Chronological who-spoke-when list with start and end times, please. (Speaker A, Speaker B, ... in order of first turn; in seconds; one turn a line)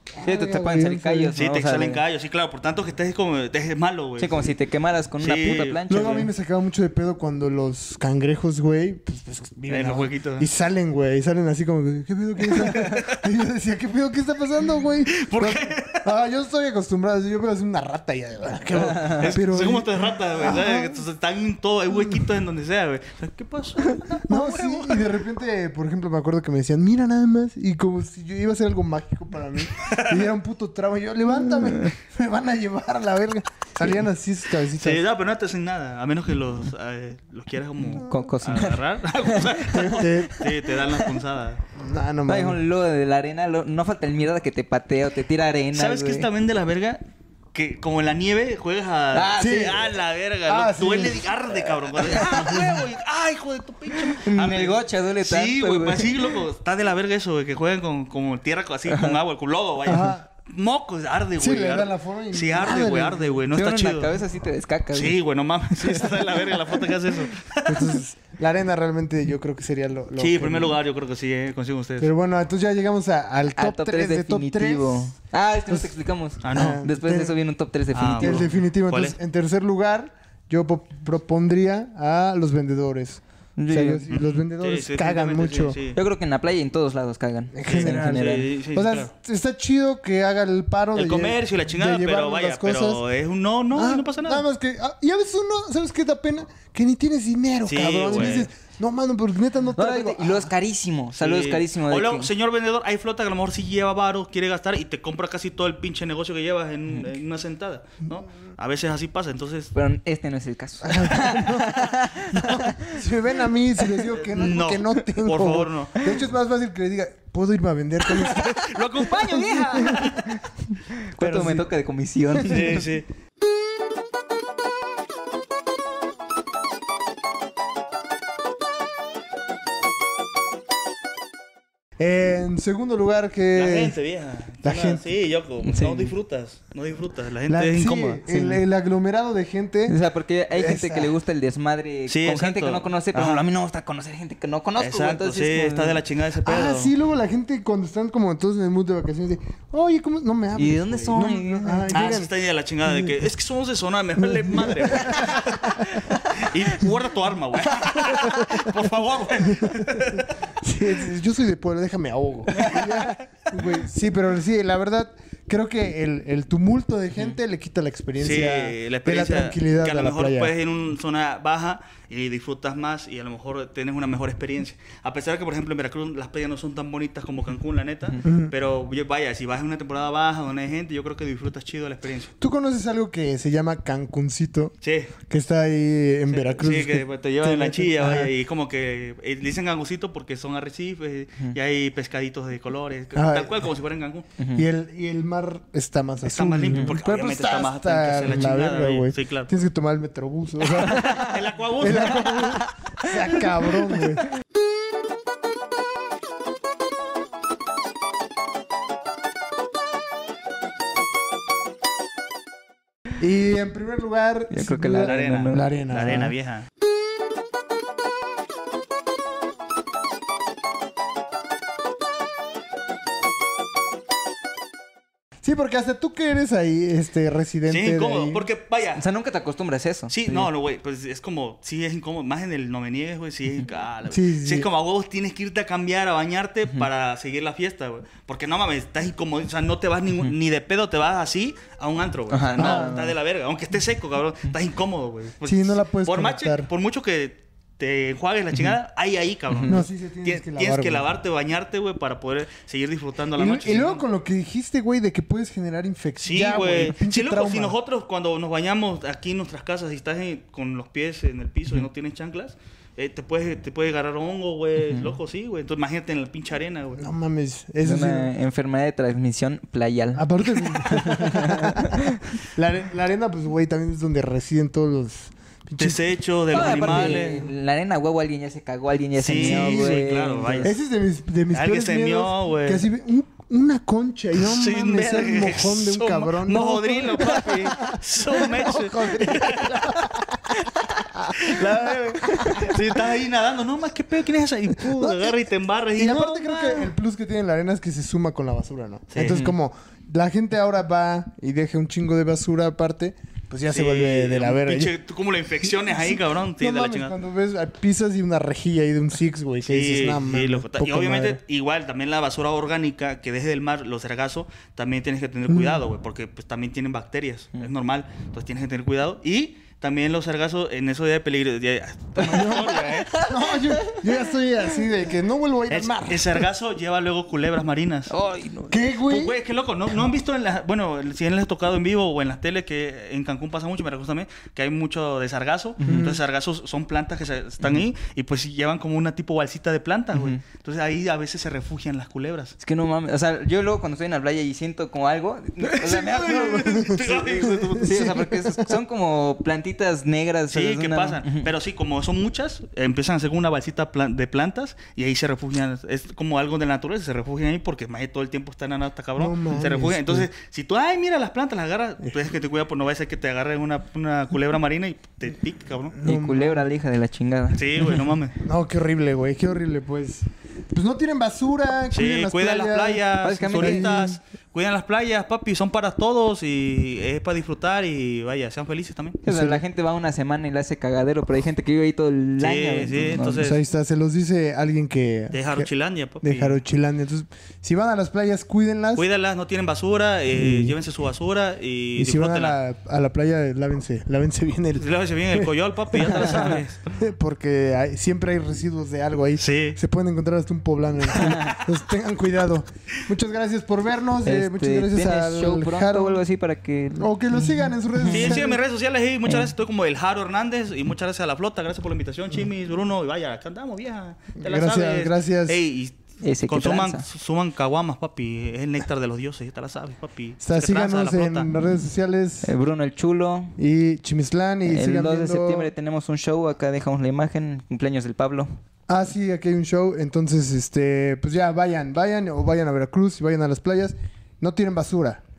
Speaker A: 0.1-1.4
Speaker B: 0.2-2.0
Speaker C: 1.3-4.5
Speaker B: 4.2-6.3
Speaker C: 5.2-5.8
Speaker A: 5.9-21.0
Speaker C: 9.7-10.5
Speaker C: 12.5-13.2
Speaker C: 15.1-16.1
Speaker C: 18.7-25.1
Speaker A: 23.9-35.0
Speaker C: 29.8-30.2
Speaker C: 34.8-41.6
Speaker B: 38.0-41.1
Speaker A: 39.7-40.6
Speaker A: 41.7-42.6
Speaker B: 42.3-46.3
Speaker C: 45.7-47.0
Speaker C: 47.5-64.1
Speaker B: 49.1-49.9
Speaker A: 49.4-49.9
Speaker A: 50.5-52.9
Speaker B: 52.0-52.7
Speaker B: 54.2-56.4
Speaker B: 58.9-59.2
Speaker A: 59.9-60.2
Speaker A: 61.4-63.4
Speaker B: 63.5-65.2
Speaker C: 64.9-68.0
Speaker A: 65.8-66.8
Speaker A: 67.6-70.8
Speaker C: 70.2-72.1
Speaker A: 72.0-75.1
Speaker B: 73.6-78.5
Speaker C: 76.4-76.8
Speaker A: 76.5-77.4
Speaker C: 77.9-79.2
Speaker A: 78.2-85.8
Speaker B: 83.6-84.0
Speaker C: 84.1-86.0
Speaker B: 85.9-88.5
Speaker A: 87.5-93.0
Speaker C: 87.7-89.1
Speaker C: 91.0-94.4
Speaker A: 93.7-100.5
Speaker C: 97.7-98.5
Speaker B: 99.8-102.3
Speaker C: 101.1-109.7
Speaker B: 109.7-113.0
Speaker A: 110.8-118.8
Speaker C: 114.2-116.1
Speaker B: 118.3-122.8
Speaker C: 118.6-120.4
Speaker A: 119.3-120.1
Speaker A: 121.2-121.7
Speaker A: 122.3-122.8
Speaker C: 122.5-123.0
Speaker A: 132.0-134.0
Speaker C: 133.5-138.3
Speaker A: 134.6-135.0
Speaker B: 135.6-136.1
Speaker A: 137.5-140.0
Speaker B: 139.9-146.0
Speaker A: 140.5-141.1
Speaker C: 142.1-143.4
Speaker C: 144.8-146.9
Speaker A: 146.4-152.3
Speaker B: 150.6-152.2
Speaker C: 151.9-160.3
Speaker A: 154.2-155.9
Speaker B: 157.7-158.6
Speaker A: 158.2-158.6
Speaker A: 159.4-170.5
Speaker C: 162.5-163.2
Speaker C: 168.2-182.3
Speaker A: 178.2-178.5
Speaker A: 182.4-188.3
Speaker C: 184.8-185.1
Speaker C: 186.3-194.3
Speaker A: 193.1-193.7
Speaker B: 194.4-194.7
Speaker A: 194.6-204.3
Speaker C: 196.2-199.5
Speaker C: 200.8-202.6
Speaker B: 200.9-201.3
Speaker B: 202.6-203.4
Speaker A: 213.2-216.3
Speaker B: 214.5-215.7
Speaker C: 215.0-216.7
Speaker A: 225.4-228.5
Speaker C: 227.7-229.0
Speaker B: 229.0-230.5
Speaker C: 230.1-254.0
Speaker A: 234.1-234.7
Speaker B: 242.3-243.1
Speaker A: 242.6-242.9
Speaker A: 245.4-246.7
Speaker B: 249.5-249.8
Speaker A: 249.7-251.1
Speaker A: 253.3-257.8
Speaker C: 256.2-267.1
Speaker B: 264.8-265.1
Speaker A: 267.0-268.3
Speaker B: 267.8-272.2
Speaker A: 270.1-276.0
Speaker C: 275.8-277.5
Speaker B: 276.5-280.7
Speaker A: 276.6-277.4
Speaker C: 279.1-280.7
Speaker A: 279.3-280.0
Speaker A: 280.6-290.6
Speaker C: 281.5-282.8
Speaker C: 284.4-290.1
Speaker C: 290.6-296.9
Speaker A: 291.1-292.8
Speaker B: 292.3-292.7
Speaker A: 294.8-295.4
Speaker A: 295.9-304.9
Speaker C: 299.1-299.5
Speaker B: 299.2-299.5
Speaker C: 303.7-307.1
Speaker A: 305.8-311.4
Speaker C: 309.6-323.2
Speaker A: 315.5-315.9
Speaker A: 322.2-326.5
Speaker B: 322.2-324.0
Speaker C: 325.7-328.1
Speaker B: 328.1-328.8
Speaker A: 328.7-329.4
Speaker C: 329.1-342.6
Speaker B: 335.8-336.1
Speaker A: 335.8-336.2
Speaker B: 340.1-340.4
Speaker B: 342.6-347.1
Speaker C: 345.6-348.1
Speaker A: 346.3-348.8
Speaker B: 347.8-351.5
Speaker C: 350.5-366.0
Speaker A: 359.2-360.3
Speaker A: 365.9-366.6
Speaker B: 366.0-368.0
Speaker C: 367.5-368.3
Speaker A: 368.4-374.2
Speaker C: 371.9-379.2
Speaker B: 373.2-373.9
Speaker B: 379.2-383.5
Speaker A: 379.2-379.6
Speaker C: 382.4-383.6
Speaker A: 383.4-385.7
Speaker C: 385.3-386.6
Speaker A: 386.2-389.1
Speaker C: 388.9-392.6
Speaker A: 390.3-390.8
Speaker A: 391.9-406.2
Speaker C: 394.8-396.8
Speaker B: 396.1-396.6
Speaker C: 399.4-399.8
Speaker B: 401.2-401.5
Speaker C: 401.2-401.6
Speaker B: 404.2-408.4
Speaker A: 407.0-408.6
Speaker C: 408.1-421.5
Speaker B: 409.2-409.5
Speaker A: 414.4-415.6
Speaker B: 416.2-417.1
Speaker A: 420.4-422.5
Speaker B: 422.4-423.6
Speaker A: 423.6-425.7
Speaker B: 424.6-428.5
Speaker A: 428.9-435.2